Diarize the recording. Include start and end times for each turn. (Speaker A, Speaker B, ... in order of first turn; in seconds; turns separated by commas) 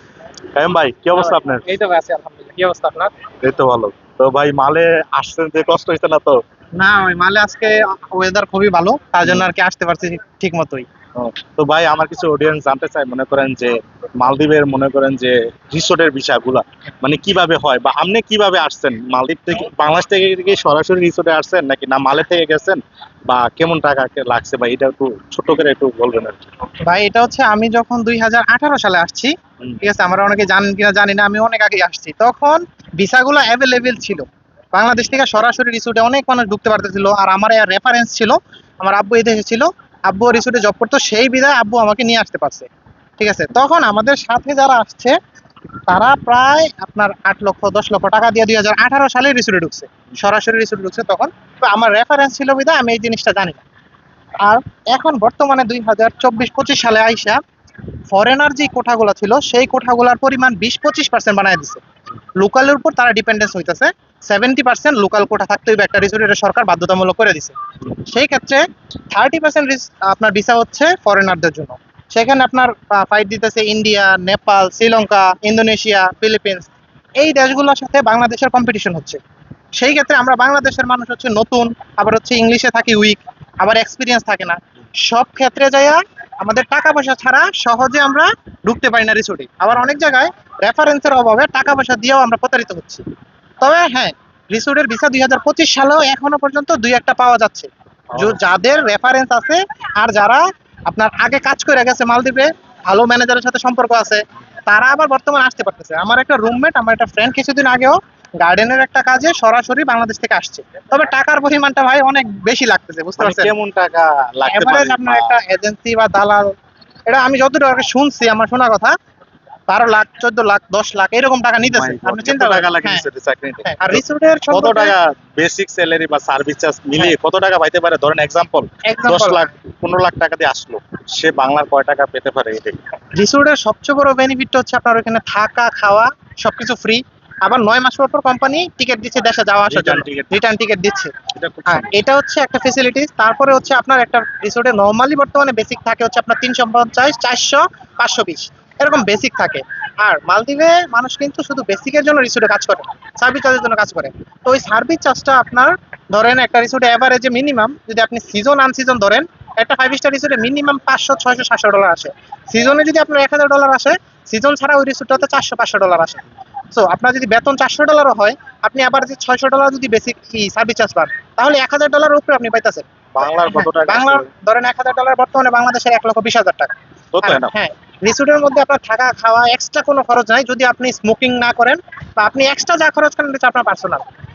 Speaker A: 0.6-1.6, Speaker B: 1.2-3.1, Speaker A: 3.4-6.4, Speaker B: 6.8-10.9, Speaker A: 11.2-26.4, Speaker B: 26.9-42.7, Speaker B: 43.2-45.1, Speaker B: 45.9-53.6, Speaker B: 54.4-57.4, Speaker B: 58.1-61.8, Speaker B: 62.4-79.2, Speaker B: 79.8-93.0, Speaker B: 93.6-113.5, Speaker A: 98.2-98.4, Speaker A: 113.2-115.3, Speaker B: 114.5-116.5, Speaker B: 117.1-118.9, Speaker B: 119.7-123.0, Speaker A: 121.7-132.8, Speaker B: 123.7-124.9, Speaker B: 128.8-129.5, Speaker B: 133.2-141.1, Speaker A: 139.7-140.5, Speaker A: 141.3-142.0, Speaker B: 141.7-172.9, Speaker A: 173.2-174.3, Speaker B: 173.4-184.1, Speaker A: 177.1-177.5